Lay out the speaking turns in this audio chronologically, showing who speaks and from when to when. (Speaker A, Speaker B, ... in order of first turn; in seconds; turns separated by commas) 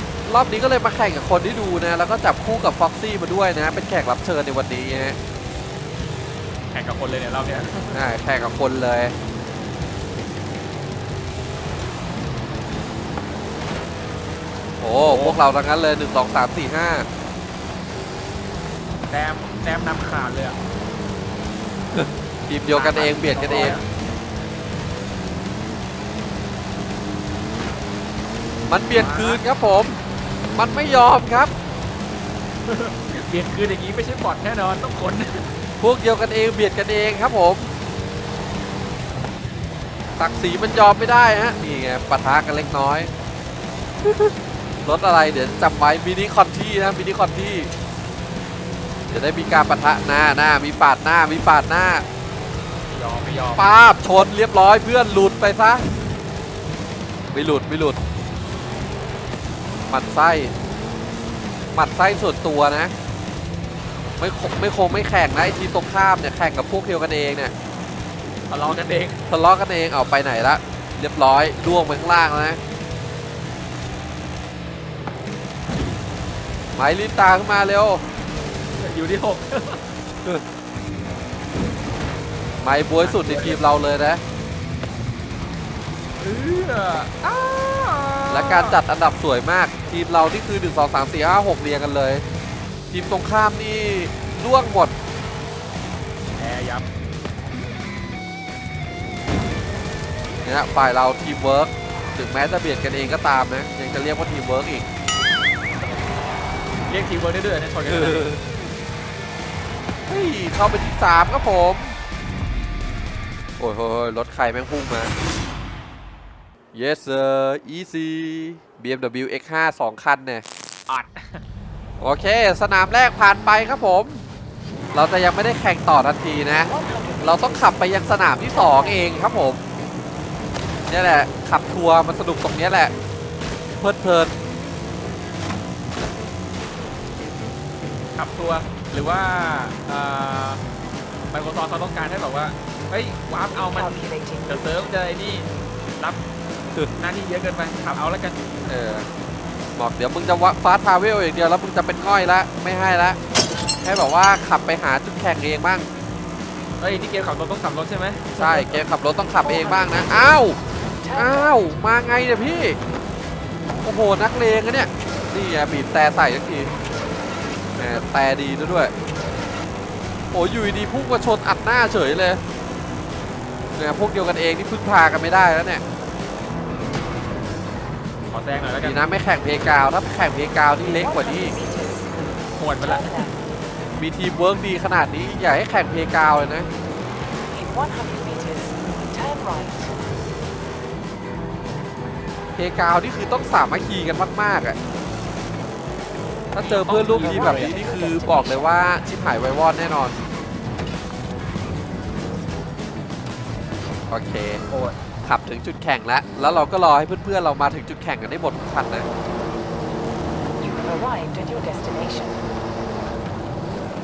Speaker A: 0.3-5.2, Speaker B: 6.7-8.0, Speaker A: 7.9-9.2, Speaker A: 14.8-17.1, Speaker B: 15.0-15.4, Speaker B: 19.1-20.6, Speaker A: 21.9-23.8, Speaker B: 22.7-23.8, Speaker A: 28.7-30.0, Speaker B: 28.9-29.4, Speaker A: 30.6-31.5, Speaker B: 32.7-35.5, Speaker A: 35.8-37.7, Speaker A: 40.2-43.1, Speaker A: 44.0-47.7, Speaker A: 49.1-52.0, Speaker B: 52.9-53.6, Speaker A: 53.6-55.9, Speaker A: 57.3-58.0, Speaker A: 59.9-60.5, Speaker A: 61.7-62.9, Speaker A: 64.2-67.5, Speaker B: 68.5-69.2, Speaker A: 69.3-72.6, Speaker A: 76.8-78.0, Speaker B: 78.8-79.8, Speaker A: 82.6-84.2, Speaker B: 83.0-83.6, Speaker B: 86.2-88.8, Speaker A: 88.3-92.2, Speaker A: 92.9-95.0, Speaker B: 96.4-96.8, Speaker A: 100.4-104.9, Speaker B: 106.9-108.3, Speaker A: 107.9-108.4, Speaker A: 110.1-112.0, Speaker A: 113.6-115.1, Speaker A: 116.7-120.5, Speaker B: 120.9-121.4, Speaker A: 122.0-124.2, Speaker A: 124.9-129.6, Speaker C: 126.6-127.7, Speaker C: 128.5-129.3, Speaker A: 130.9-132.9, Speaker A: 133.8-134.4, Speaker B: 138.2-140.6, Speaker B: 141.3-143.9, Speaker C: 143.6-144.7, Speaker B: 144.5-145.5, Speaker B: 147.0-148.4, Speaker A: 148.7-149.1, Speaker A: 149.8-153.2, Speaker A: 153.8-155.9, Speaker B: 156.8-158.8, Speaker A: 158.4-160.6, Speaker C: 159.4-160.4, Speaker C: 161.0-161.8, Speaker A: 161.2-162.8, Speaker A: 163.8-166.8, Speaker B: 167.8-168.1, Speaker A: 167.8-168.9, Speaker A: 170.3-172.4, Speaker A: 173.8-175.8, Speaker B: 178.3-179.0, Speaker A: 178.8-181.6, Speaker C: 180.8-182.1, Speaker B: 182.5-183.3, Speaker C: 182.8-183.3, Speaker A: 184.0-186.7, Speaker C: 187.5-190.0, Speaker A: 192.6-194.8, Speaker A: 196.5-200.2, Speaker B: 196.6-197.8, Speaker C: 197.2-199.0, Speaker A: 204.1-204.6, Speaker B: 204.7-204.9, Speaker A: 205.2-209.1, Speaker C: 210.6-212.4